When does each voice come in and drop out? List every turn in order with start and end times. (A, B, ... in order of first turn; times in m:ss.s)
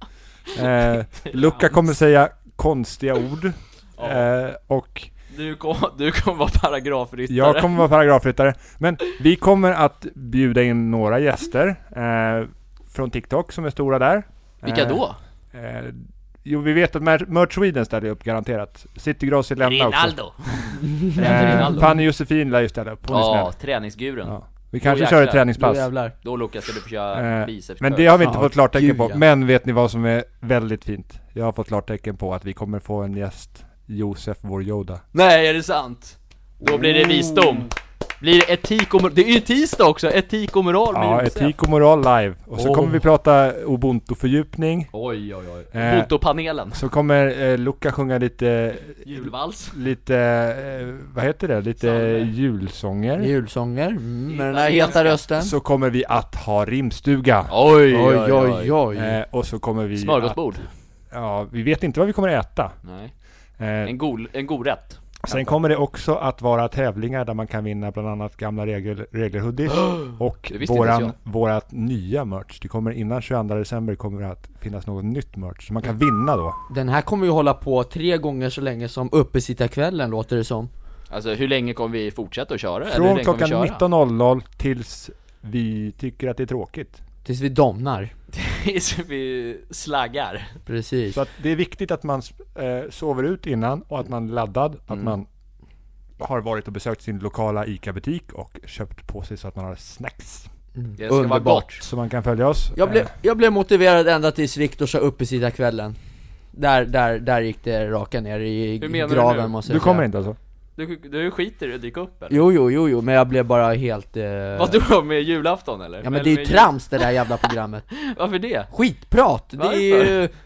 0:00.5-0:05.1 A
0:01.2-0:01.8 B
0:04.0-0:04.3 B
0:05.3-0:07.8 B
0:07.3-0:20.2 A
0:14.6-0:15.2 B
0:19.6-0:21.9 B
0:21.2-0:23.5 A
0:21.2-0:21.6 C
0:23.1-0:25.5 B
0:24.2-0:25.9 A
0:25.6-0:26.1 C
0:26.2-0:28.2 B
0:27.1-0:35.0 A
0:28.2-0:29.2 C
0:35.1-0:41.5 B
0:36.8-0:37.4 A
0:40.9-0:44.9 A
0:42.6-0:43.0 B
0:44.9-0:46.8 B
0:45.7-0:46.1 A
0:46.7-0:53.3 A
0:49.0-0:49.8 B
0:51.8-0:52.3 B
0:53.2-0:55.5 C
0:54.3-0:55.2 B
0:55.4-0:57.5 A
0:57.5-0:58.8 B
0:57.9-0:59.2 C
0:58.9-1:00.4 A
1:00.0-1:00.7 B
1:01.1-1:02.7 A
1:02.8-1:03.1 B
1:03.6-1:03.9 A
1:03.8-1:05.5 B
1:05.2-1:16.6 A
1:10.0-1:11.1 B
1:16.7-1:20.7 C
1:21.1-1:23.8 B
1:22.9-1:27.0 A
1:27.2-1:28.1 C
1:28.3-1:30.6 B
1:30.7-1:31.2 C
1:31.1-1:35.2 A
1:36.2-1:40.5 A
1:40.8-1:41.7 C
1:41.0-1:41.9 B
1:41.8-1:43.1 A
1:42.8-1:46.0 C
1:46.5-1:50.0 C
1:48.8-1:49.6 B
1:49.6-1:50.4 A
1:50.8-1:52.4 B
1:52.3-1:54.8 C
1:54.6-1:57.1 B
1:56.0-1:57.9 C
1:57.9-1:58.7 B
1:58.7-2:00.3 C
1:59.6-2:00.2 B